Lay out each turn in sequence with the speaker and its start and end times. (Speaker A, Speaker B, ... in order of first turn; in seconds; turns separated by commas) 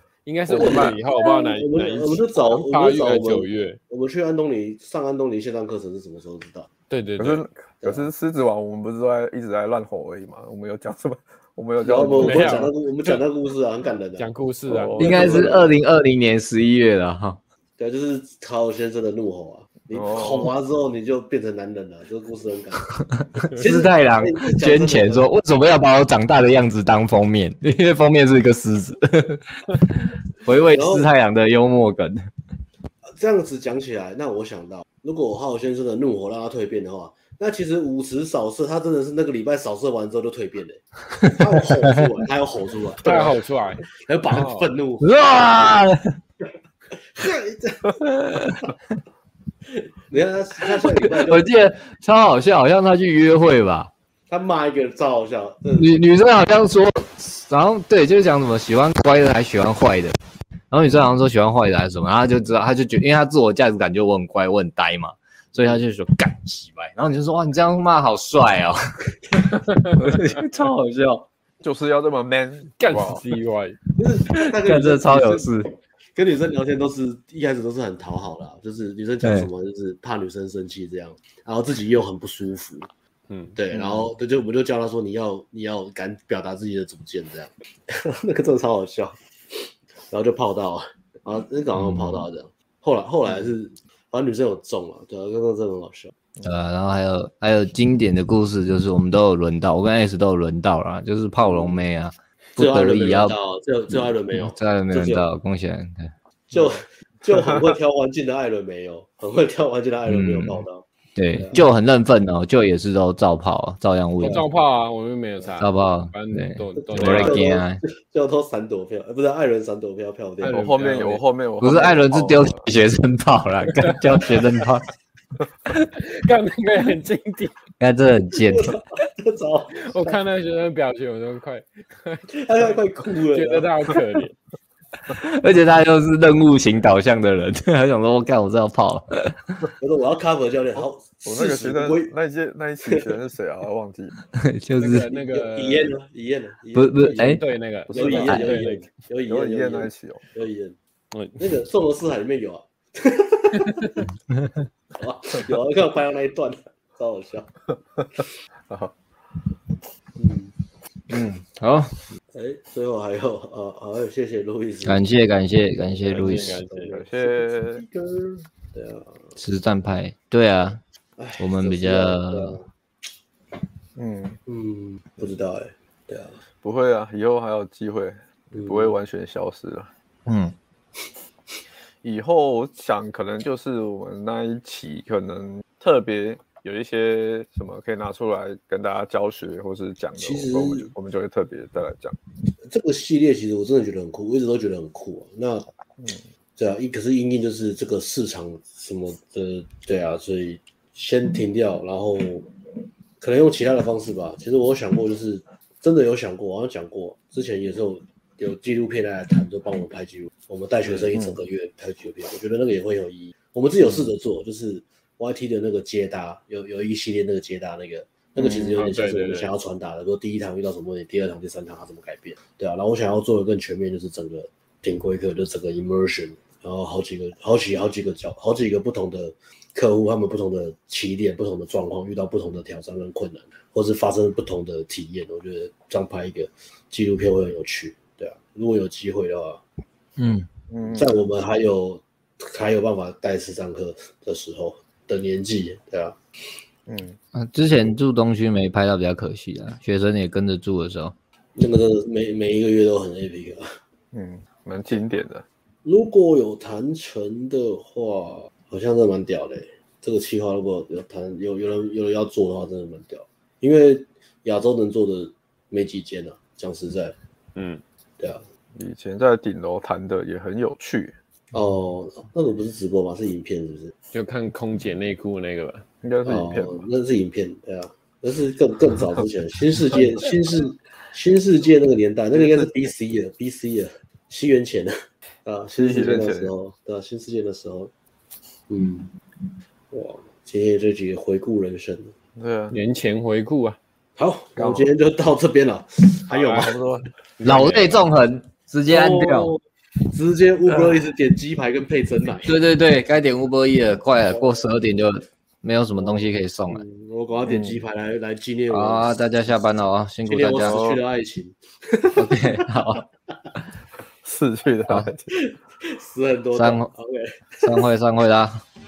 Speaker A: 0.2-3.8, Speaker B: 0.5-1.0, Speaker C: 0.5-6.7, Speaker A: 6.9-7.4, Speaker B: 7.2-12.7, Speaker C: 7.8-8.1, Speaker C: 11.8-15.7, Speaker A: 12.0-13.2, Speaker A: 14.2-15.4, Speaker B: 14.7-15.4, Speaker D: 15.0-17.4, Speaker C: 17.8-25.3, Speaker B: 19.9-20.5, Speaker D: 23.5-32.2, Speaker C: 30.7-31.1, Speaker C: 33.1-45.7, Speaker A: 43.0-44.7, Speaker D: 45.0-46.2, Speaker C: 47.1-48.0, Speaker D: 48.0-48.7, Speaker C: 50.1-51.5, Speaker D: 50.6-53.9, Speaker C: 54.3-56.0, Speaker D: 55.8-60.1, Speaker D: 60.7-71.2, Speaker B: 71.6-73.2, Speaker A: 72.8-73.8, Speaker C: 74.0-75.5, Speaker D: 74.3-75.7, Speaker C: 76.1-82.9, Speaker D: 79.2-79.5, Speaker A: 83.3-83.5, Speaker C: 83.5-89.2, Speaker B: 83.7-84.1, Speaker C: 90.1-96.1, Speaker D: 91.7-92.3, Speaker D: 96.4-103.3, Speaker C: 101.4-101.8, Speaker C: 102.6-105.2, Speaker D: 103.9-106.1, Speaker C: 106.5-111.6, Speaker D: 110.1-114.5, Speaker A: 114.2-117.4, Speaker D: 115.6-117.8, Speaker C: 116.8-120.8, Speaker A: 120.4-121.2, Speaker B: 120.4-122.7, Speaker D: 121.6-124.9, Speaker A: 123.8-124.5, Speaker A: 125.7-127.5, Speaker D: 127.8-128.8, Speaker C: 128.3-130.2, Speaker A: 129.8-132.3, Speaker C: 132.3-133.7, Speaker A: 133.1-134.3, Speaker D: 135.1-139.6, Speaker C: 139.8-142.1, Speaker B: 141.2-144.1, Speaker D: 144.3-145.1, Speaker A: 144.8-145.9, Speaker C: 145.1-150.8, Speaker D: 146.7-147.4, Speaker A: 147.1-148.9, Speaker D: 148.0-148.4, Speaker B: 149.3-150.2, Speaker A: 151.1-151.4, Speaker C: 151.4-154.0, Speaker D: 154.3-154.7, Speaker C: 155.0-157.5, Speaker B: 158.0-158.9, Speaker C: 160.2-160.5, Speaker D: 161.1-162.0, Speaker C: 162.3-165.0, Speaker D: 164.8-166.6, Speaker A: 166.0-167.0, Speaker C: 166.2-169.3, Speaker B: 166.9-167.8, Speaker D: 169.4-170.8, Speaker C: 171.2-172.7, Speaker D: 171.4-172.6, Speaker B: 173.9-174.4, Speaker C: 174.5-176.4, Speaker B: 176.6-179.9, Speaker C: 178.5-178.9, Speaker D: 180.2-180.5, Speaker B: 182.0-192.2, Speaker C: 190.2-190.9, Speaker C: 192.7-195.7, Speaker B: 196.0-196.3, Speaker C: 196.6-202.5, Speaker C: 203.2-239.6, Speaker A: 218.3-219.5, Speaker D: 240.2-240.5, Speaker B: 240.7-241.1, Speaker C: 240.8-246.2, Speaker B: 246.9-247.2, Speaker D: 247.3-251.1, Speaker C: 251.6-253.7, Speaker B: 254.1-255.4, Speaker C: 255.8-267.1, Speaker A: 267.5-267.8, Speaker C: 268.2-268.4, Speaker B: 268.7-271.1, Speaker C: 271.5-273.9, Speaker A: 274.1-275.9, Speaker B: 276.0-276.8, Speaker C: 276.2-284.9, Speaker B: 282.3-282.7, Speaker C: 285.4-287.9, Speaker B: 285.8-286.5, Speaker C: 288.7-289.1, Speaker C: 289.9-292.1, Speaker B: 292.4-292.8, Speaker A: 292.7-293.8, Speaker C: 294.2-296.8, Speaker B: 294.6-294.9, Speaker B: 296.3-298.0, Speaker D: 297.4-299.5, Speaker C: 298.9-302.6, Speaker D: 302.5-306.8, Speaker C: 306.0-309.1, Speaker B: 307.4-307.8, Speaker D: 308.7-310.8, Speaker C: 310.2-312.7, Speaker B: 310.6-311.0, Speaker D: 312.1-313.1, Speaker B: 314.2-315.3, Speaker C: 315.4-317.8, Speaker D: 316.5-316.9, Speaker D: 317.6-318.6